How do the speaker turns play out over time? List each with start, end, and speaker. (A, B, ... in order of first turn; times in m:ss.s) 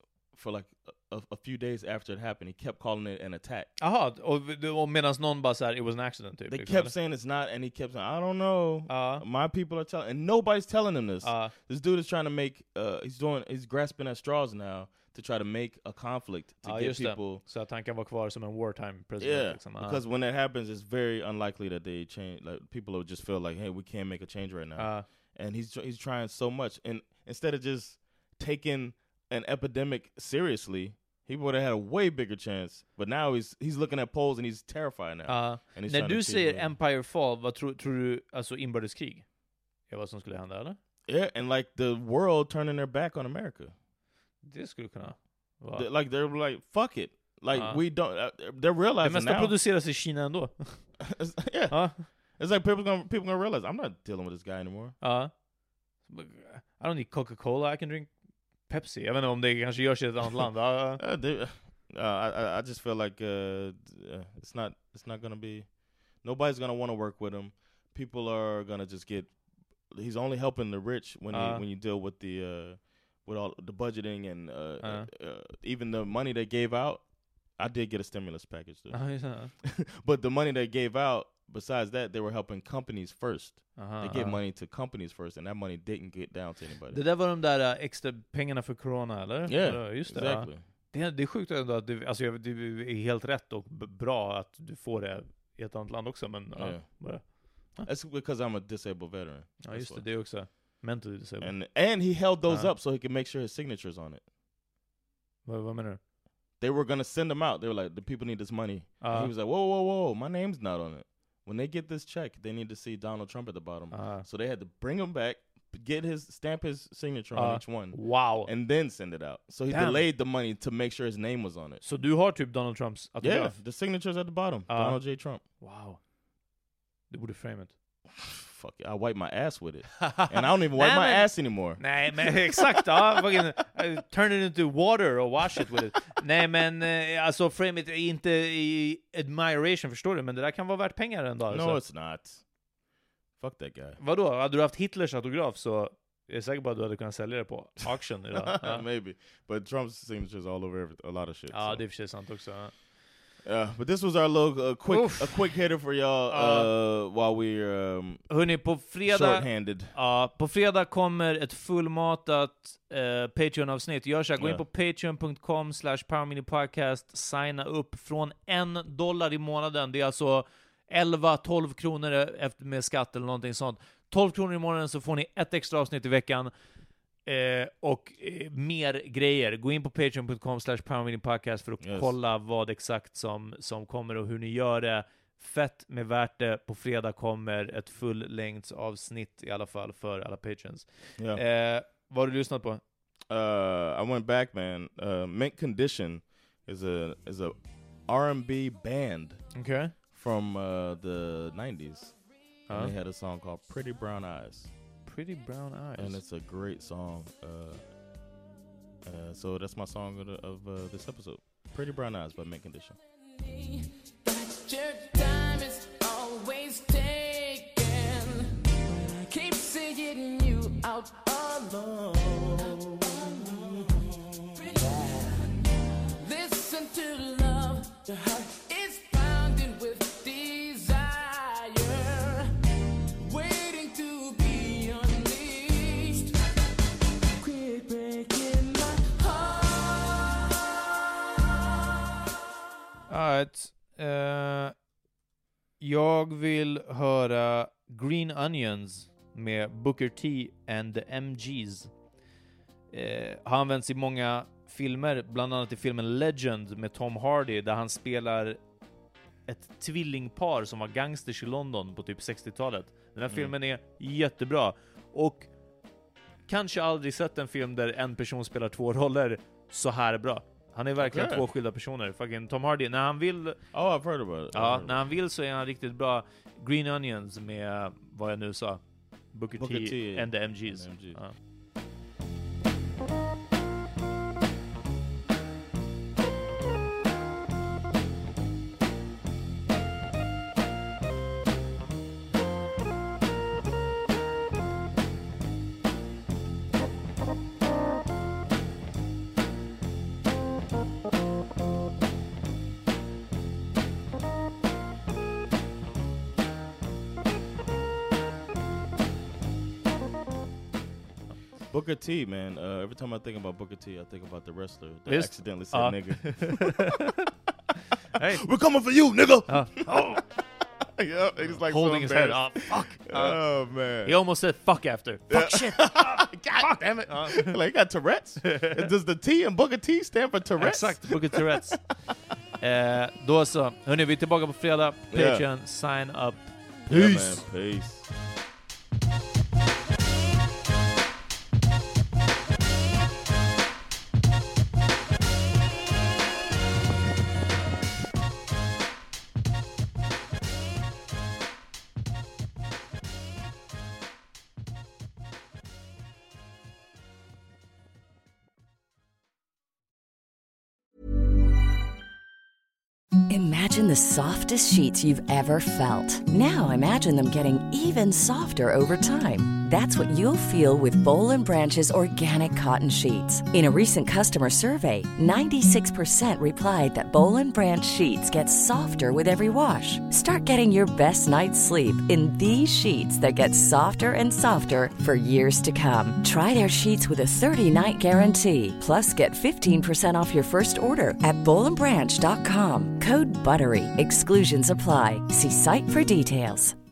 0:00.3-0:03.7 A
0:03.8-0:06.9 B
0:06.5-0:17.4 A
0:08.9-0:09.2 B
0:11.2-0:11.5 B
0:16.6-0:20.0 B
0:19.2-0:36.7 A
0:24.8-0:25.0 B
0:35.3-0:39.3 B
0:39.9-0:40.8 B
0:41.1-0:43.7 A
0:44.4-0:45.8 B
0:45.7-0:49.6 A
0:47.5-0:47.8 B
0:49.0-0:51.0 B
0:51.0-0:54.9 A
0:51.7-0:52.0 B
0:55.0-0:55.3 B
0:56.0-0:58.1 B
0:58.7-1:01.0 B
1:01.0-1:09.4 A
1:09.9-1:27.0 A
1:11.3-1:11.6 B
1:14.8-1:15.1 B
1:18.9-1:19.5 B
1:23.8-1:24.4 B
1:26.9-1:37.9 B
1:29.5-1:30.6 A
1:36.5-1:40.0 A
1:39.6-1:41.8 B
1:41.4-1:44.2 A
1:42.4-1:42.7 B
1:45.4-1:46.0 B
1:46.6-2:01.8 A
1:49.0-1:49.3 B
1:53.9-1:54.2 B
1:57.3-1:58.5 B
1:59.7-2:00.0 B
2:01.8-2:03.5 B
2:03.2-2:05.4 A
2:04.7-2:06.0 B
2:07.1-2:07.7 B
2:08.2-2:11.9 A
2:10.0-2:21.8 B
2:21.5-2:22.5 A
2:23.4-2:24.0 A
2:24.0-2:28.8 B
2:28.3-2:31.8 A
2:31.5-2:32.7 B
2:33.4-2:38.3 A
2:34.9-2:35.5 B
2:36.3-2:36.7 B
2:38.3-2:56.5 B
2:39.0-2:39.9 A
2:57.2-3:12.8 B
3:01.8-3:02.1 A
3:13.3-3:19.5 A
3:19.5-3:19.9 B
3:20.1-3:22.2 A
3:22.7-3:22.9 B
3:22.7-3:24.7 A
3:25.0-3:26.2 B
3:26.0-3:27.8 A
3:29.0-3:33.0 A
3:33.2-3:52.5 C
3:53.2-3:56.4 C
3:57.4-4:00.6 C
4:03.1-4:04.7 B
4:05.8-4:11.9 B
4:12.9-4:18.6 B
4:19.5-4:25.5 B
4:26.5-4:33.6 B
4:31.0-4:31.4 A
4:33.7-4:35.0 A
4:34.5-4:38.8 B
4:39.3-4:41.3 B
4:39.6-4:41.2 A
5:11.7-5:16.9 A
5:15.1-5:17.2 B
5:18.1-5:18.4 B
5:18.4-5:20.2 A
5:19.5-5:20.2 B
5:20.8-5:24.2 A
5:21.7-5:23.4 B
5:24.0-5:27.5 B
5:25.3-5:31.5 A
5:28.5-5:28.9 B
5:30.6-5:31.8 B
5:32.6-5:37.4 B
5:35.1-5:35.4 A
5:36.9-5:38.0 A
6:03.3-6:36.8 D